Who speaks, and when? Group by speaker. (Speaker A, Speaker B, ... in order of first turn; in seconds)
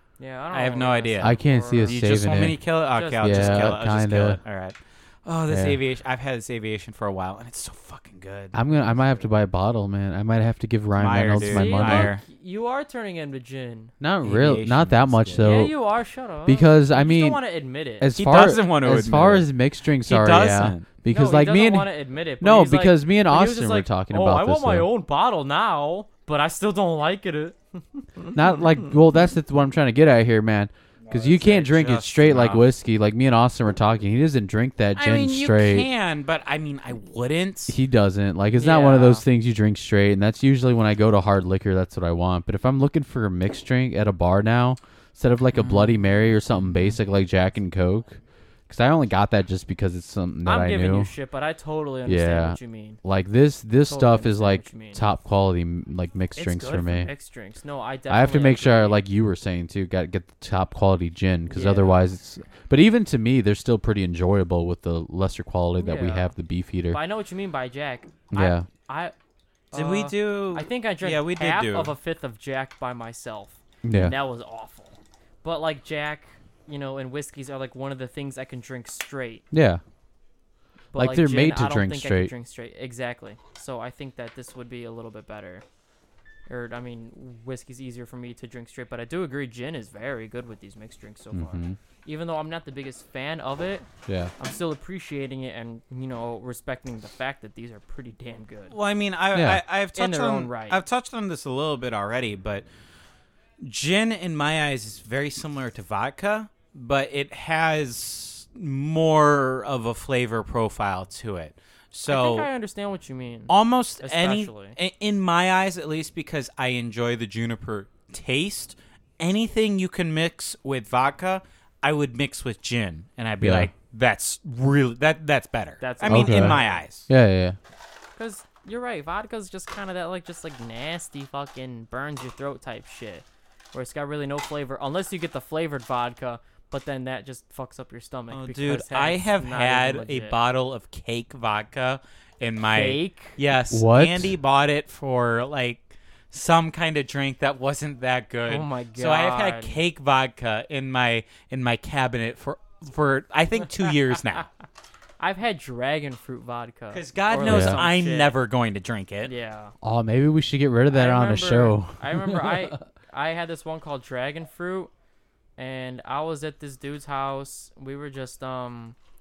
Speaker A: 0.2-2.3, 2.9-3.8, 11.4-13.9, 15.4-18.1, 21.1-28.4, 38.5-39.2, 50.4-53.0, 53.9-55.0, 56.4-59.0, 61.5-62.0, 65.8-66.3, 66.9-69.1, 69.7-79.4, 80.9-85.6, 86.5-93.9, 94.4-98.8, 99.9-100.8, 112.0-114.8, 125.8-126.6, 128.2-140.4, 142.7-143.4, 148.5-149.8, 155.2-158.4, 159.2-159.7, 160.9-164.9, 165.6-168.9
Speaker B: 0.5-9.2, 11.0-12.2, 14.2-15.7, 18.1-19.5, 20.0-20.9, 31.0-32.7, 35.0-37.7, 45.5-47.0, 69.7-71.9, 98.7-102.7, 103.6-112.5, 113.5-127.1, 138.3-154.5, 156.9-159.3
Speaker C: 1.2-2.6, 3.2-4.4, 5.5-5.8, 8.5-12.1, 14.0-15.7, 16.4-17.4, 18.0-24.9, 28.3-35.9, 37.7-51.1, 52.0-57.1, 58.1-67.0, 68.3-68.7, 73.8-74.1, 79.5-79.8, 80.9-82.3, 91.3-91.8, 99.3-99.6, 123.4-123.7, 126.1-127.6, 143.7-144.3, 157.4-157.8, 159.8-162.7